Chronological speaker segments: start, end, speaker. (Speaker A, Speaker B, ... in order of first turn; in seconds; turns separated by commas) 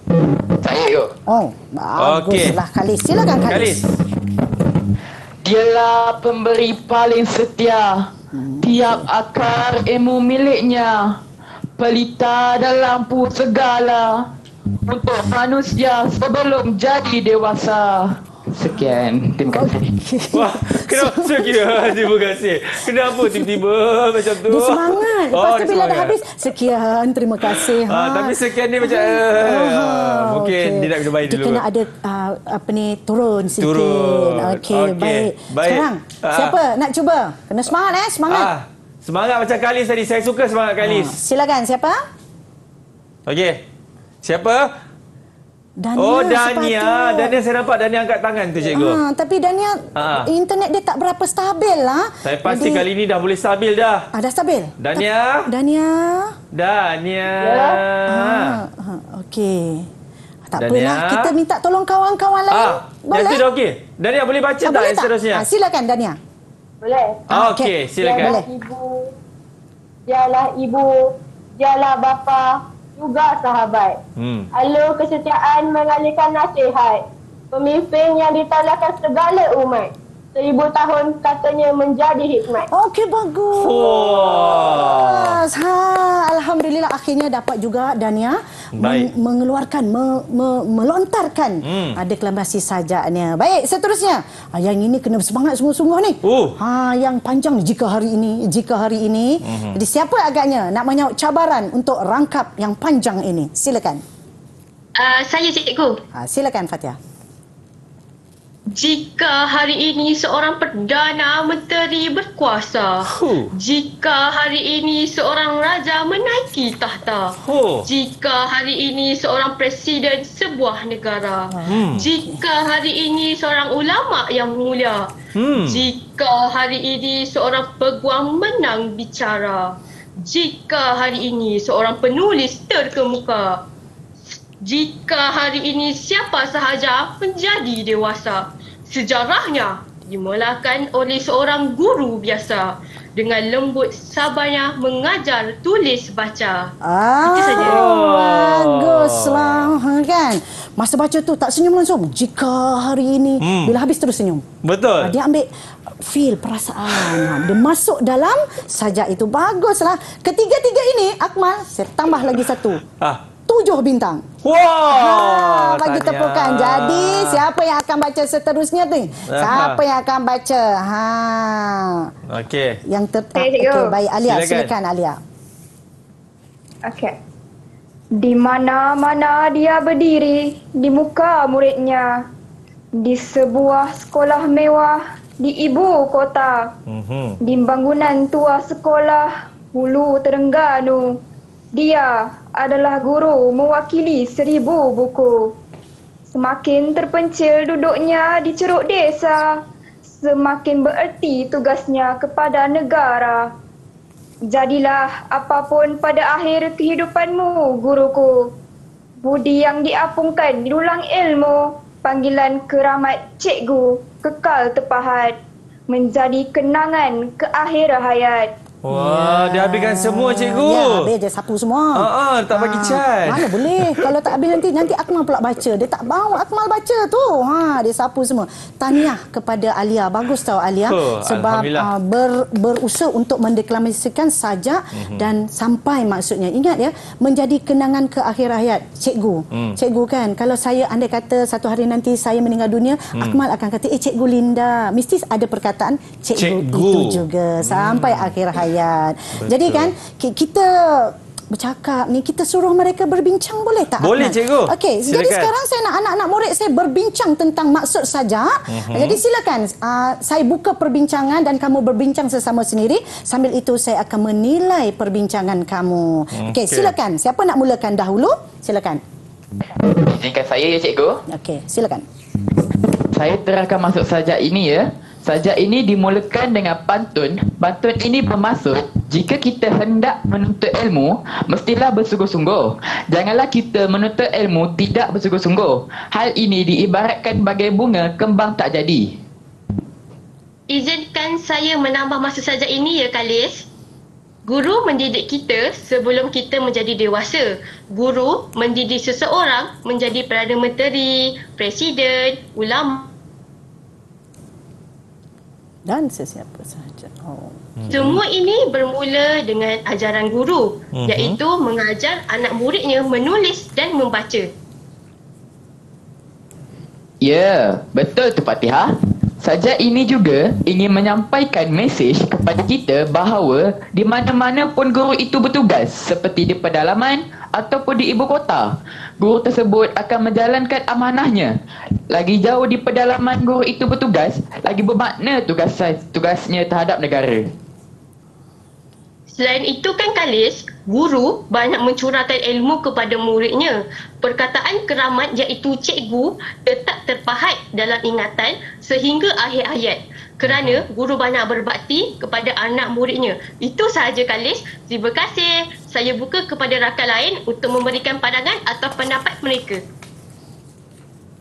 Speaker A: 0.3-1.1, Speaker B: 1.3-3.9, Speaker C: 2.0-2.6, Speaker C: 3.4-3.9, Speaker A: 5.4-8.1, Speaker B: 8.3-9.1, Speaker A: 8.6-11.2, Speaker A: 11.8-14.3, Speaker A: 14.8-19.9, Speaker B: 19.5-22.2, Speaker C: 20.3-26.2, Speaker B: 22.9-23.6, Speaker B: 24.4-38.5, Speaker C: 27.5-31.6, Speaker C: 33.6-36.6, Speaker C: 38.3-41.2, Speaker B: 40.8-42.0, Speaker C: 43.3-43.6, Speaker C: 44.2-44.7, Speaker B: 45.8-47.4, Speaker C: 46.0-49.0, Speaker B: 48.7-52.8, Speaker C: 50.0-50.3, Speaker C: 52.2-54.1, Speaker B: 54.1-56.4, Speaker C: 54.8-55.5, Speaker C: 56.5-58.6, Speaker D: 57.4-57.8, Speaker B: 58.1-59.9, Speaker B: 60.5-63.4, Speaker C: 60.6-61.3, Speaker C: 62.5-65.4, Speaker B: 64.6-66.2, Speaker D: 66.8-67.2, Speaker B: 67.3-68.5, Speaker C: 67.3-68.3, Speaker D: 68.0-69.1, Speaker D: 70.1-74.0, Speaker C: 74.2-74.5, Speaker D: 74.5-82.7, Speaker B: 82.7-104.0, Speaker C: 83.5-85.4, Speaker C: 88.7-89.1, Speaker C: 91.6-92.0, Speaker C: 96.2-96.6, Speaker C: 99.4-99.8, Speaker E: 105.0-106.0, Speaker B: 106.1-107.0, Speaker E: 108.7-125.1, Speaker C: 113.0-113.5, Speaker C: 117.4-117.9, Speaker B: 121.5-122.4, Speaker C: 121.7-122.0, Speaker C: 125.3-125.8, Speaker E: 125.6-133.6, Speaker E: 134.3-146.7, Speaker B: 146.8-154.5, Speaker E: 147.2-147.8, Speaker C: 147.6-149.7, Speaker C: 153.4-153.8, Speaker C: 154.6-155.1, Speaker B: 155.0-162.8, Speaker B: 163.5-164.3, Speaker C: 164.4-167.4, Speaker B: 164.9-172.1, Speaker C: 169.3-169.8, Speaker C: 172.2-172.8, Speaker B: 172.8-175.2, Speaker F: 173.4-173.9, Speaker C: 174.2-174.7, Speaker F: 176.8-177.1, Speaker F: 178.2-182.2, Speaker F: 183.0-186.7, Speaker C: 186.9-187.4, Speaker F: 187.4-191.2, Speaker F: 191.7-195.5, Speaker F: 196.3-199.5, Speaker F: 200.1-203.5, Speaker F: 204.5-208.5, Speaker F: 209.2-215.3, Speaker F: 215.9-218.5, Speaker C: 218.8-221.1, Speaker B: 218.9-269.0, Speaker C: 221.9-224.1, Speaker C: 230.8-231.9, Speaker C: 235.0-235.3, Speaker C: 239.5-239.8, Speaker C: 243.1-243.4, Speaker C: 246.3-248.3, Speaker C: 249.4-249.9, Speaker C: 254.0-255.5, Speaker C: 258.7-259.2, Speaker C: 266.4-266.9, Speaker A: 269.8-271.2, Speaker B: 271.3-272.1, Speaker A: 273.1-289.2, Speaker E: 290.7-293.7, Speaker E: 294.4-303.1, Speaker B: 305.9-307.6, Speaker C: 307.8-308.2, Speaker E: 307.9-314.5, Speaker C: 310.9-311.4, Speaker A: 317.2-331.5, Speaker A: 332.1-337.5, Speaker E: 339.3-359.8, Speaker C: 350.4-350.8